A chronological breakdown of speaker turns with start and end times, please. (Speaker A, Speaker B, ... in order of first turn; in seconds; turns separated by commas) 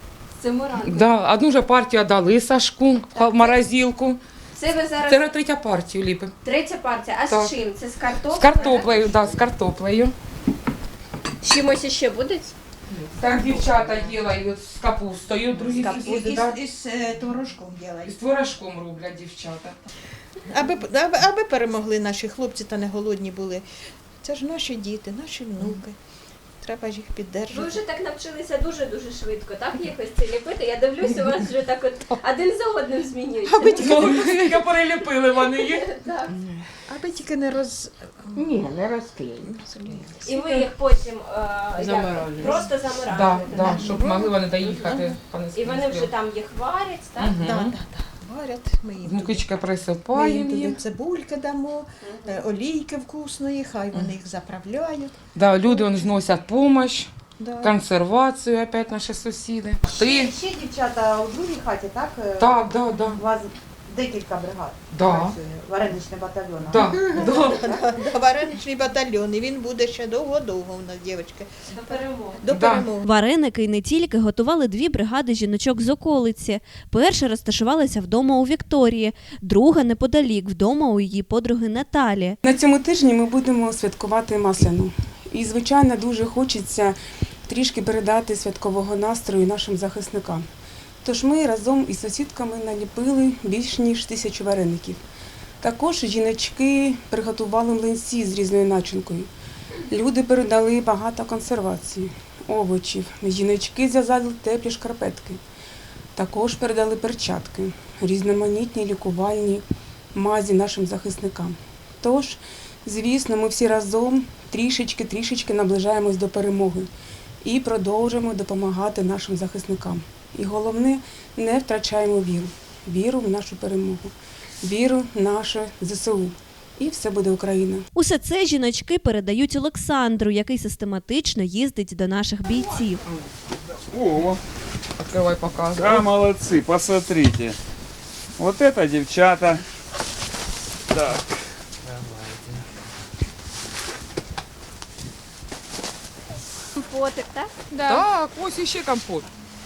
Speaker A: 0.4-1.2, Speaker B: 0.8-4.2, Speaker A: 3.1-3.6, Speaker A: 4.5-5.3, Speaker B: 5.0-6.3, Speaker A: 6.4-9.4, Speaker B: 7.3-7.5, Speaker B: 8.3-10.1, Speaker A: 11.4-12.5, Speaker B: 12.9-16.6, Speaker A: 15.7-16.4, Speaker C: 16.3-18.1, Speaker B: 18.1-19.8, Speaker C: 20.5-23.6, Speaker C: 24.2-25.9, Speaker C: 26.6-27.8, Speaker A: 27.5-33.9, Speaker C: 33.5-34.7, Speaker B: 33.7-35.9, Speaker A: 35.4-36.3, Speaker C: 36.9-38.6, Speaker C: 39.3-40.6, Speaker A: 40.2-47.4, Speaker D: 41.8-42.6, Speaker B: 43.1-46.1, Speaker C: 43.8-44.0, Speaker B: 47.2-47.7, Speaker C: 47.4-49.5, Speaker B: 49.0-50.8, Speaker C: 50.1-55.1, Speaker D: 52.0-52.4, Speaker B: 55.3-57.1, Speaker C: 55.7-56.0, Speaker C: 57.4-57.7, Speaker B: 57.6-60.3, Speaker D: 59.8-67.1, Speaker B: 62.4-63.2, Speaker B: 64.9-65.3, Speaker B: 66.7-67.7, Speaker C: 67.0-73.0, Speaker D: 67.6-68.0, Speaker A: 71.7-72.4, Speaker B: 72.5-72.9, Speaker E: 73.0-82.3, Speaker F: 82.4-87.0, Speaker F: 87.5-90.4, Speaker F: 91.0-95.0, Speaker F: 95.6-99.3, Speaker F: 99.9-105.4, Speaker F: 106.1-116.9, Speaker F: 117.4-127.8, Speaker E: 127.9-133.0, Speaker G: 133.9-134.4, Speaker B: 135.0-136.1, Speaker G: 135.7-137.6, Speaker G: 138.4-139.6, Speaker G: 140.9-142.6, Speaker A: 146.7-148.0, Speaker B: 147.7-149.3